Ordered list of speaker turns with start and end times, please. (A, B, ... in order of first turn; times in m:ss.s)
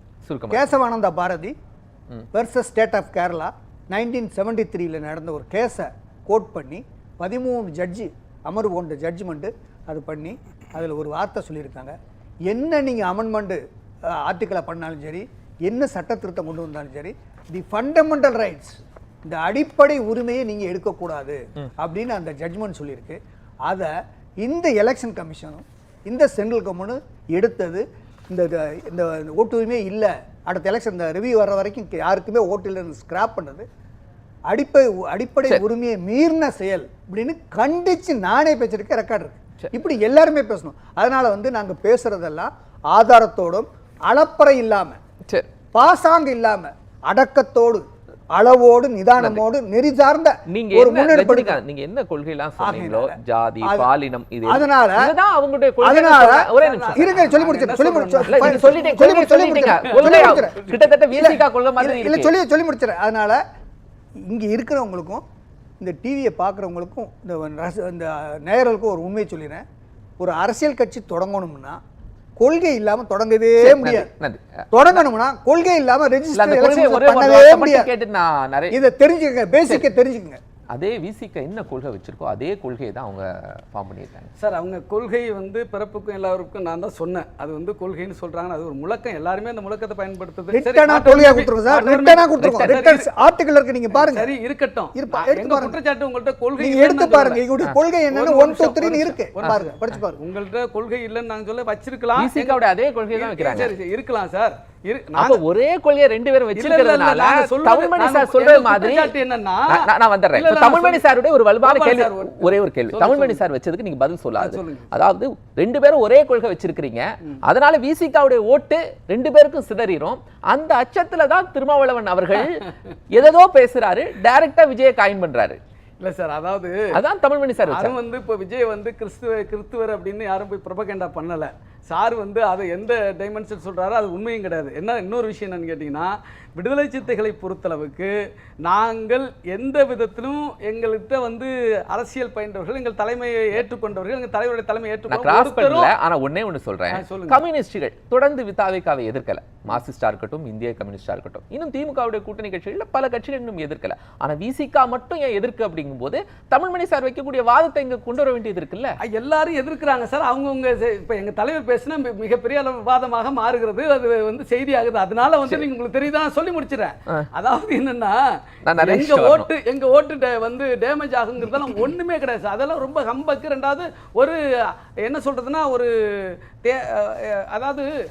0:00.2-0:00.7 A
0:00.5-0:01.6 B
0:02.3-0:12.0 B
0:12.5-0:13.6 B
0:14.2-0:33.6 B
0:34.5-0:45.0 B
0:45.7-0:51.6 B
0:50.5-0:57.2 A
0:52.6-0:53.9 B
0:54.4-0:55.1 B
0:55.8-1:03.4 B
0:56.6-0:58.7 C
0:58.3-1:02.3 A
0:59.8-1:00.6 C
1:04.3-1:05.2 B
1:05.8-1:09.6 B
1:10.2-1:11.8 B
1:12.4-1:14.1 B
1:13.6-1:15.0 A
1:14.7-1:17.9 B
1:16.3-1:18.8 A
1:18.7-1:20.4 B
1:20.7-1:24.3 A
1:24.4-1:33.1 C
1:30.5-1:34.3 B
1:32.4-1:32.8 A
1:33.9-1:37.4 C
1:35.0-1:35.8 B
1:36.6-1:40.2 B
1:38.1-1:42.6 C
1:42.2-1:43.7 A
1:43.2-1:45.4 C
1:45.2-1:49.2 A
1:46.6-1:51.0 C
1:49.7-2:05.6 A
1:51.6-1:53.4 C
1:54.4-1:54.9 C
2:06.0-2:06.8 C
2:06.9-2:08.0 A
2:07.7-2:18.1 C
2:18.6-2:25.9 C
2:25.1-2:39.0 A
2:26.9-2:27.4 C
2:39.1-2:48.2 C
2:48.6-2:49.5 A
2:48.8-2:57.9 C